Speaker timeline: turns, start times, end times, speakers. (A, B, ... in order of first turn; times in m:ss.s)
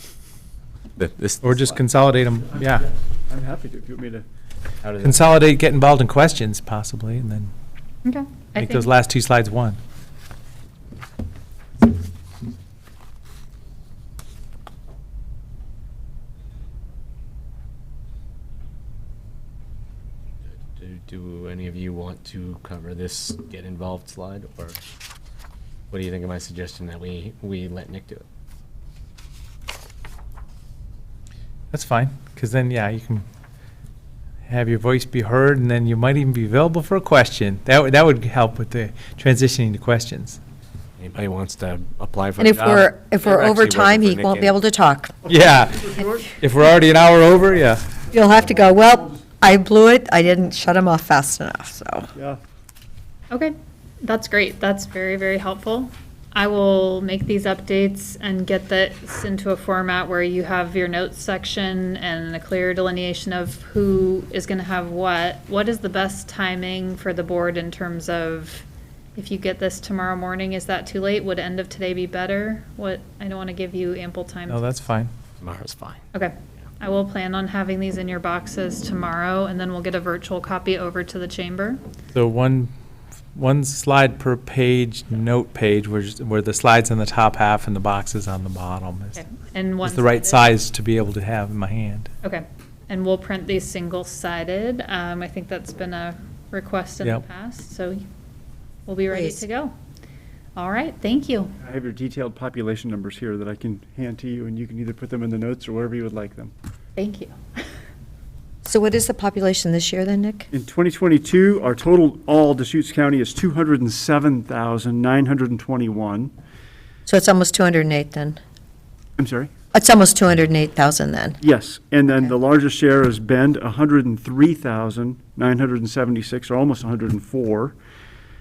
0:01.0-0:01.8 A
0:01.4-0:02.9 B
0:03.3-0:04.2 C
0:04.8-0:05.3 A
0:05.0-0:07.5 B
0:08.0-0:08.9 D
0:08.5-0:09.8 B
0:20.6-0:24.8 A
0:25.9-0:28.2 A
0:31.7-0:33.2 B
0:34.5-0:40.4 B
0:41.0-0:44.6 A
0:42.4-0:45.2 E
0:45.3-0:48.0 B
0:45.8-0:46.3 C
0:48.1-0:52.1 E
0:52.2-0:52.4 C
0:53.3-1:14.6 D
1:14.5-1:15.1 B
1:15.4-1:16.0 A
1:16.1-1:21.8 D
1:22.2-1:22.7 B
1:23.3-1:29.2 B
1:29.2-1:30.5 D
1:29.8-1:32.1 B
1:32.2-1:38.0 D
1:38.9-1:39.7 D
1:39.1-1:39.4 E
1:40.6-1:41.5 D
1:41.6-1:46.5 C
1:47.0-1:47.4 D
1:48.6-1:50.5 E
1:50.5-1:56.3 C
1:57.1-1:58.4 E
1:59.2-1:59.5 C
1:59.7-2:01.4 E
2:01.4-2:07.8 C